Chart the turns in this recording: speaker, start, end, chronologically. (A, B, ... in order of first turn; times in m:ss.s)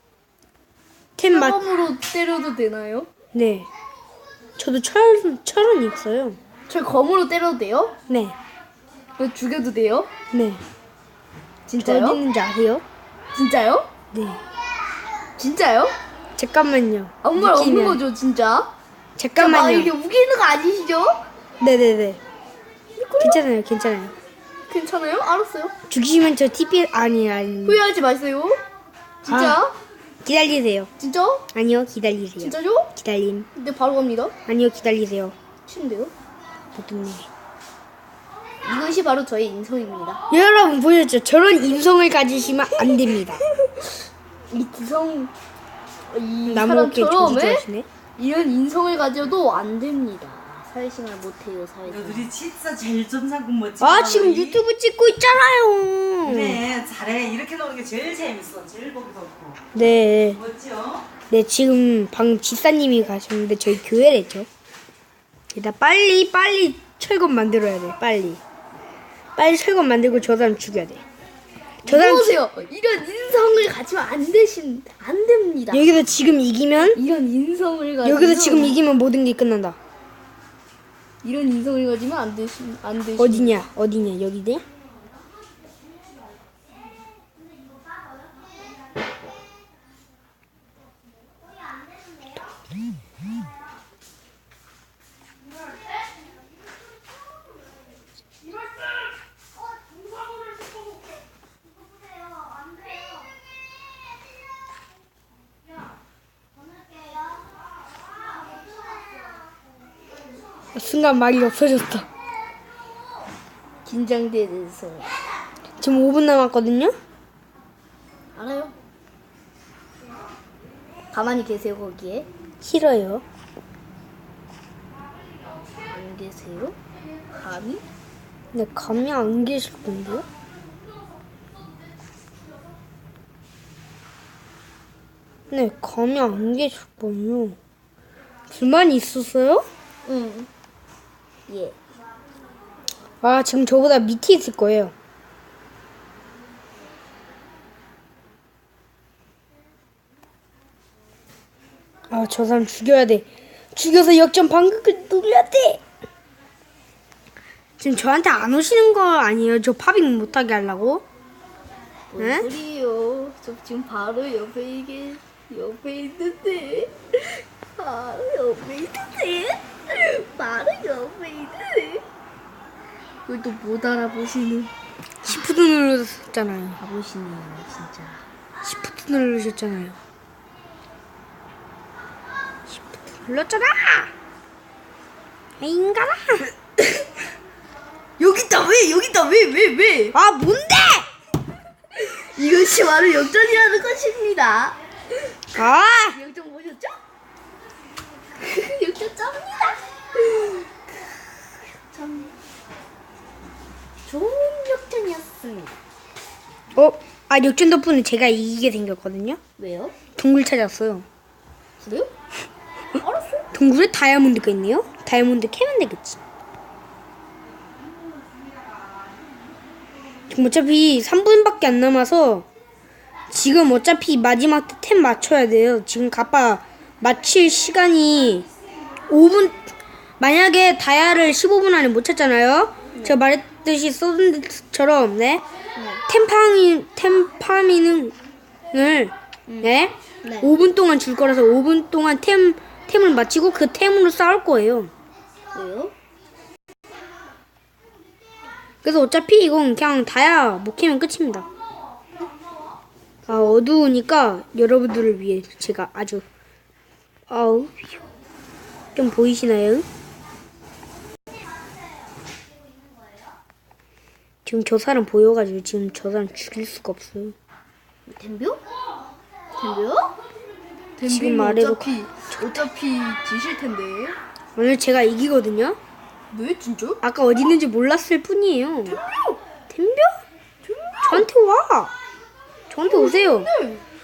0:01.2-0:01.6 A
0:01.3-0:03.1 B
0:03.3-0:03.7 A
0:04.6-0:06.4 A
0:06.7-0:08.0 B
0:08.1-0:08.4 A
0:09.2-0:10.1 B
0:10.3-0:10.6 A
0:11.7-0:12.2 B
0:11.8-0:12.8 A
0:13.3-0:13.9 B
0:14.1-0:14.4 A
0:15.4-0:16.0 B
0:16.4-0:18.0 A
0:17.2-0:18.7 B
0:19.2-0:19.9 A
0:19.4-0:21.2 B
0:21.6-0:22.2 A
0:23.0-0:23.4 B
0:23.2-0:24.2 A
0:24.7-0:25.7 B
0:25.9-0:27.8 A
0:27.7-0:28.6 B
0:29.2-0:29.8 B
0:29.3-0:29.6 A
0:30.2-0:30.9 A
0:31.0-0:31.5 B
0:31.5-0:33.5 A
0:32.4-0:32.9 B
0:33.6-0:34.4 B
0:34.5-0:35.4 A
0:35.7-0:36.1 B
0:36.8-0:37.3 A
0:38.6-0:40.2 B
0:40.3-0:43.4 A
0:42.8-0:43.9 B
0:44.5-0:45.3 B
0:46.1-0:47.6 B
0:46.5-0:47.9 A
0:48.2-0:52.4 B
0:52.4-0:53.8 C
0:53.8-0:56.7 A
0:56.7-0:59.5 C
0:59.7-1:00.5 A
1:01.3-1:04.5 A
1:05.5-1:08.4 A
1:09.4-1:11.0 A
1:11.8-1:16.0 B
1:11.9-1:12.4 A
1:15.7-1:17.0 A
1:16.9-1:18.8 B
1:18.0-1:19.8 A
1:21.2-1:23.6 B
1:23.2-1:24.6 A
1:50.8-1:52.1 A
1:53.8-1:55.2 B
1:55.8-1:56.9 A
1:58.3-1:58.7 B
2:01.1-2:02.3 B
2:02.6-2:03.2 A
2:05.9-2:06.8 B
2:07.3-2:07.8 B
2:08.5-2:10.2 A
2:15.5-2:17.6 A
2:18.5-2:19.7 A
2:20.1-2:20.5 B
2:21.5-2:21.8 B
2:23.2-2:24.9 A
2:32.1-2:35.8 A
2:37.8-2:41.0 A
2:42.1-2:52.0 B
2:42.2-2:42.5 A
2:53.3-2:54.7 B
2:55.2-2:56.8 A
2:56.8-2:58.2 B
2:58.6-3:00.0 A
3:02.7-3:04.1 A
3:05.6-3:06.5 A
3:08.2-3:10.2 B
3:10.1-3:11.1 A
3:11.9-3:14.8 B
3:15.5-3:16.2 A
3:16.1-3:17.0 B
3:18.4-3:20.7 B
3:21.9-3:22.3 B
3:24.1-3:25.8 B
3:26.8-3:29.4 A
3:29.6-3:30.0 B
3:30.2-3:31.0 A
3:31.8-3:32.1 B
3:33.0-3:33.6 B
3:33.5-3:36.2 A
3:40.3-3:42.5 A
3:43.3-3:48.5 A
3:49.1-3:49.6 A
3:50.2-3:55.4 A
3:52.9-3:53.2 B
3:55.8-3:56.0 B
3:56.1-3:58.2 A
3:58.7-4:04.9 A
4:00.2-4:00.5 B
4:05.5-4:06.0 B
4:08.8-4:11.5 A
4:13.3-4:16.2 A
4:17.3-4:18.0 A
4:19.0-4:19.8 A
4:24.4-4:27.4 A
4:28.1-4:28.6 B
4:29.6-4:30.2 B
4:31.0-4:34.2 B
4:31.1-4:32.4 A
4:34.6-4:35.8 A
4:36.3-4:37.0 B
4:37.0-4:39.0 A
4:38.9-4:39.4 B
4:39.7-4:40.2 A
4:40.6-4:41.3 B
4:41.0-4:41.9 A
4:42.7-4:43.5 A
4:42.9-4:43.8 B